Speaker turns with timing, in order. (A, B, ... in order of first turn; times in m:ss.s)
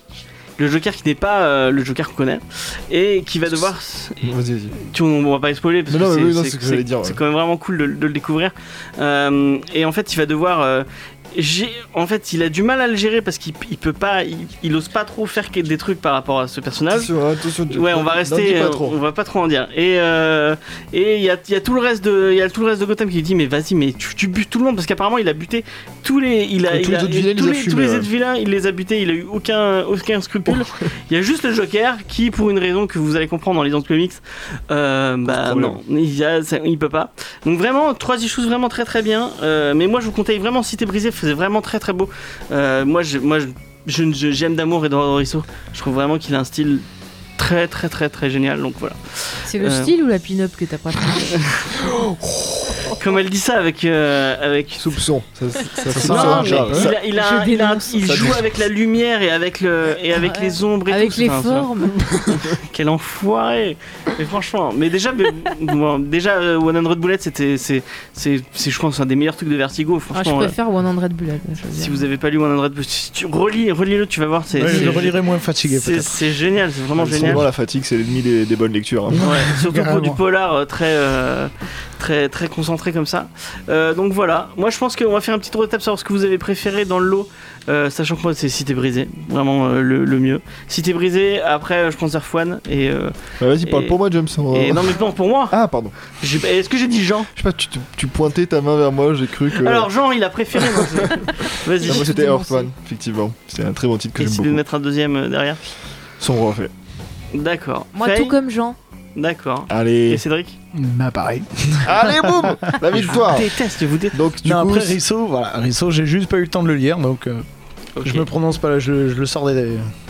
0:00.6-0:17.1 A
0:04.2-0:04.8 B
0:05.9-0:07.2 B
0:16.9-0:19.0 B
0:17.7-0:46.8 A
0:26.7-0:28.1 B
0:35.3-0:35.8 B
0:47.4-0:49.9 A
0:49.5-0:51.4 C
0:51.9-0:52.4 B
0:53.0-0:55.0 A
0:54.8-0:57.0 B
0:55.8-0:56.9 D
0:55.9-1:10.6 A
0:57.0-0:58.3 C
0:58.0-0:58.4 B
1:00.2-1:02.1 C
1:10.1-1:12.1 C
1:11.8-1:17.4 A
1:14.6-1:16.2 D
1:16.9-1:19.3 B
1:19.1-1:20.2 D
1:19.2-1:34.0 A
1:33.4-1:36.0 B
1:34.5-1:35.6 A
1:36.1-1:37.3 A
1:37.4-1:39.9 B
1:39.5-1:42.1 A
1:40.5-1:44.6 B
1:41.8-1:42.7 C
1:44.2-1:45.6 A
1:46.2-1:46.7 B
1:47.3-1:48.4 A
1:47.9-1:48.8 C
1:49.2-1:50.6 A
1:49.7-1:50.2 B
1:50.7-1:53.0 D
1:51.8-1:53.6 B
1:53.1-1:54.2 A
1:54.1-1:55.0 B
1:54.4-1:57.4 D
1:58.0-1:58.3 A
1:58.0-1:59.9 D